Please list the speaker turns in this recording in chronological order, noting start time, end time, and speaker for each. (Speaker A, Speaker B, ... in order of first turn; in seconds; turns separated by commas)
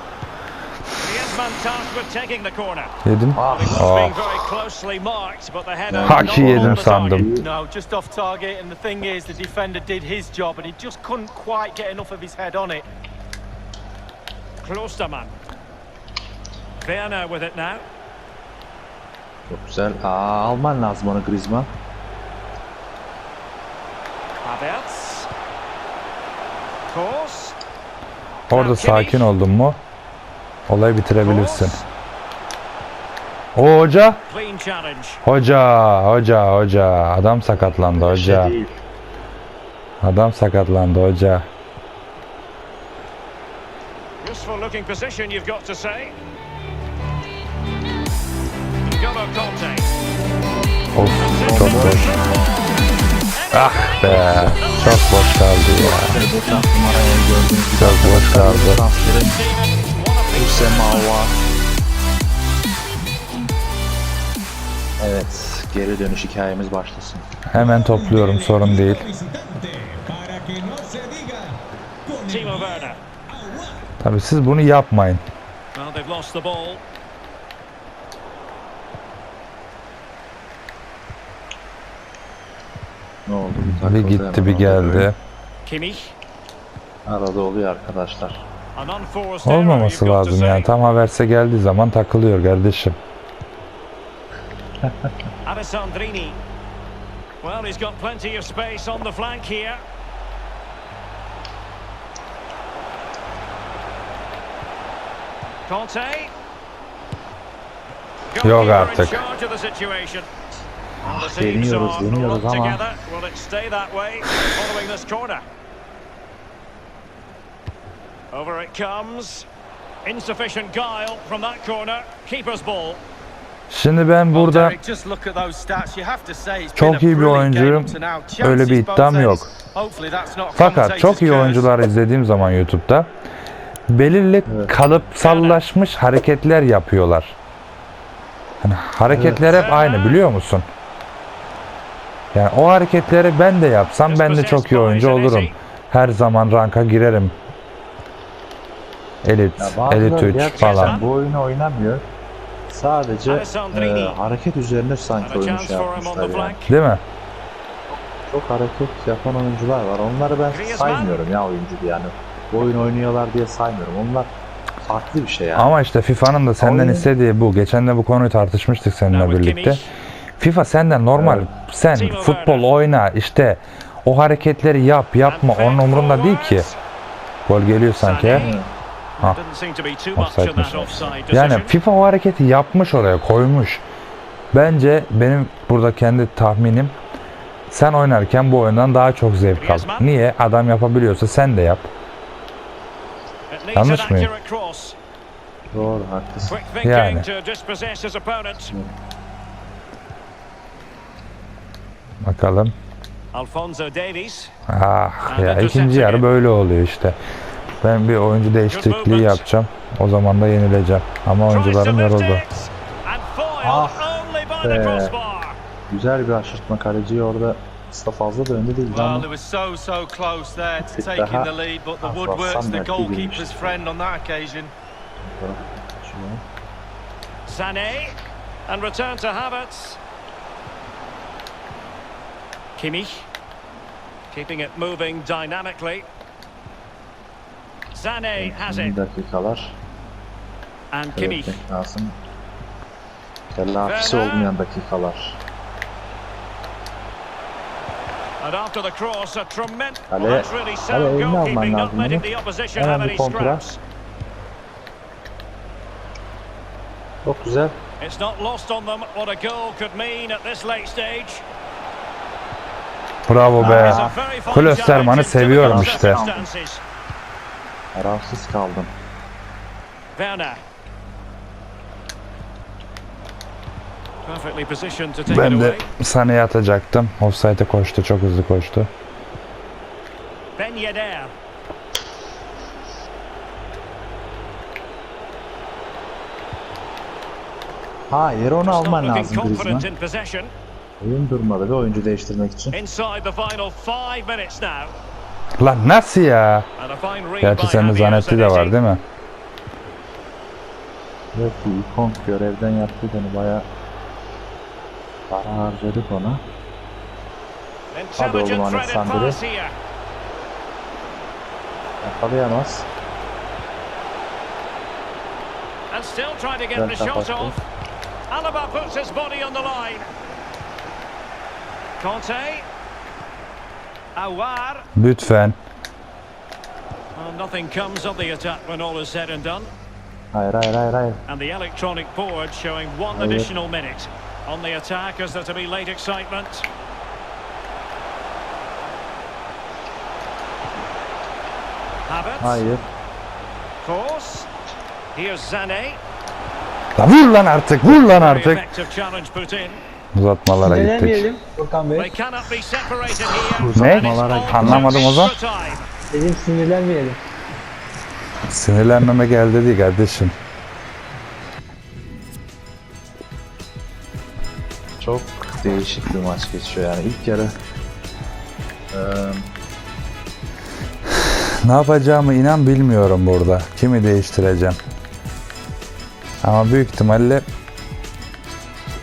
Speaker A: 1.0-7.3, Speaker B: 3.0-4.3, Speaker C: 3.4-3.9, Speaker C: 5.9-7.5, Speaker B: 6.0-7.3, Speaker D: 7.4-12.8, Speaker A: 14.6-15.3, Speaker A: 16.8-17.8, Speaker C: 19.5-21.7, Speaker A: 24.4-25.3, Speaker A: 26.9-27.6, Speaker B: 28.5-29.8, Speaker A: 28.5-29.3, Speaker B: 30.7-31.8, Speaker A: 31.2-31.9, Speaker B: 33.5-34.2, Speaker A: 34.3-35.2, Speaker B: 35.2-38.5, Speaker C: 37.9-38.7, Speaker B: 40.0-41.5, Speaker A: 44.2-46.1, Speaker A: 48.8-49.9, Speaker B: 50.9-52.1, Speaker A: 51.0-52.8, Speaker C: 51.4-52.2, Speaker A: 53.3-55.4, Speaker B: 53.5-56.2, Speaker C: 54.0-54.6, Speaker C: 55.7-59.4, Speaker B: 57.7-58.8, Speaker A: 59.0-61.2, Speaker C: 60.3-61.3, Speaker C: 65.0-67.3, Speaker B: 67.5-69.1, Speaker A: 72.1-73.0, Speaker B: 74.0-75.2, Speaker A: 75.7-76.8, Speaker C: 83.2-85.1, Speaker B: 83.6-85.2, Speaker A: 85.6-86.1, Speaker C: 87.0-88.4, Speaker A: 88.8-90.7, Speaker B: 89.4-93.0, Speaker C: 94.8-95.1, Speaker A: 95.4-96.4, Speaker A: 97.4-99.8, Speaker A: 105.7-106.3, Speaker A: 108.3-110.3, Speaker B: 108.4-109.2, Speaker C: 111.0-112.8, Speaker A: 111.0-115.4, Speaker A: 118.3-119.5, Speaker A: 120.0-123.0, Speaker B: 123.7-124.8, Speaker D: 124.3-131.7, Speaker B: 126.8-129.5, Speaker B: 130.6-133.1, Speaker B: 133.9-137.3, Speaker C: 134.5-134.7, Speaker A: 135.2-135.6, Speaker B: 138.6-140.7, Speaker C: 139.1-139.6, Speaker A: 139.4-140.2, Speaker B: 142.3-147.3, Speaker A: 144.1-145.5, Speaker B: 149.2-151.0, Speaker C: 149.6-152.1, Speaker A: 150.4-151.1, Speaker C: 152.7-156.6, Speaker A: 153.3-154.2, Speaker A: 155.2-156.7, Speaker B: 156.7-157.0, Speaker C: 157.9-164.3, Speaker A: 160.5-161.2, Speaker C: 164.8-165.8, Speaker B: 165.5-169.8, Speaker C: 166.6-167.1, Speaker A: 169.1-169.9, Speaker B: 170.4-176.7, Speaker C: 171.1-171.5, Speaker A: 171.9-172.7, Speaker A: 175.2-176.8, Speaker B: 177.4-178.5, Speaker A: 178.0-178.6, Speaker C: 178.3-178.7, Speaker A: 179.2-181.7, Speaker B: 180.2-183.8, Speaker B: 184.5-186.9, Speaker B: 187.7-191.9, Speaker A: 189.6-190.1, Speaker A: 193.5-194.9, Speaker B: 193.7-194.3, Speaker C: 195.7-196.6, Speaker A: 196.5-198.8, Speaker B: 196.8-197.2, Speaker B: 202.2-202.7, Speaker A: 203.3-204.5, Speaker B: 204.7-207.2, Speaker A: 205.2-206.3, Speaker B: 207.8-212.4, Speaker A: 208.7-209.5, Speaker A: 211.5-215.6, Speaker C: 213.6-215.1, Speaker C: 215.9-219.3, Speaker D: 218.9-224.7, Speaker C: 220.8-221.5, Speaker C: 222.0-223.8, Speaker C: 225.2-226.4, Speaker A: 227.5-228.2, Speaker A: 228.7-230.0, Speaker A: 232.8-233.3, Speaker A: 234.3-236.1, Speaker A: 237.9-239.0, Speaker C: 238.3-239.7, Speaker A: 240.9-241.6, Speaker C: 241.2-242.2, Speaker C: 243.5-245.4, Speaker A: 243.8-244.5, Speaker A: 248.4-253.8, Speaker C: 250.1-253.6, Speaker C: 257.2-257.8, Speaker A: 258.0-261.4, Speaker B: 263.3-266.2, Speaker C: 263.6-264.2, Speaker A: 263.7-266.8, Speaker C: 265.6-266.4, Speaker C: 267.9-268.9, Speaker A: 270.1-270.6, Speaker A: 274.2-275.9, Speaker B: 275.2-278.9, Speaker A: 280.6-281.3, Speaker C: 288.1-289.9, Speaker A: 288.6-290.5, Speaker C: 291.0-292.8, Speaker A: 292.7-294.9, Speaker B: 295.6-296.6, Speaker A: 296.8-298.8, Speaker B: 297.4-299.0, Speaker C: 301.3-303.6, Speaker C: 305.3-306.4, Speaker A: 307.9-309.7, Speaker C: 308.2-309.4, Speaker C: 312.0-312.9, Speaker A: 315.9-317.6, Speaker C: 316.7-317.6, Speaker A: 318.3-320.1, Speaker A: 322.0-322.7, Speaker A: 324.1-324.9, Speaker B: 324.9-325.6, Speaker A: 327.1-329.7, Speaker C: 330.3-331.2, Speaker A: 331.3-336.7, Speaker C: 333.1-333.5, Speaker A: 342.1-342.6, Speaker C: 342.4-342.8, Speaker A: 343.8-344.5, Speaker A: 345.1-346.0, Speaker B: 347.0-348.6, Speaker A: 347.8-349.8, Speaker B: 350.1-351.3, Speaker E: 350.6-352.1, Speaker A: 351.9-355.9, Speaker C: 353.5-355.1, Speaker B: 353.7-355.4, Speaker E: 356.1-357.2, Speaker B: 358.5-360.3, Speaker C: 365.0-367.5, Speaker C: 368.9-369.4, Speaker B: 371.1-374.8, Speaker B: 376.4-377.4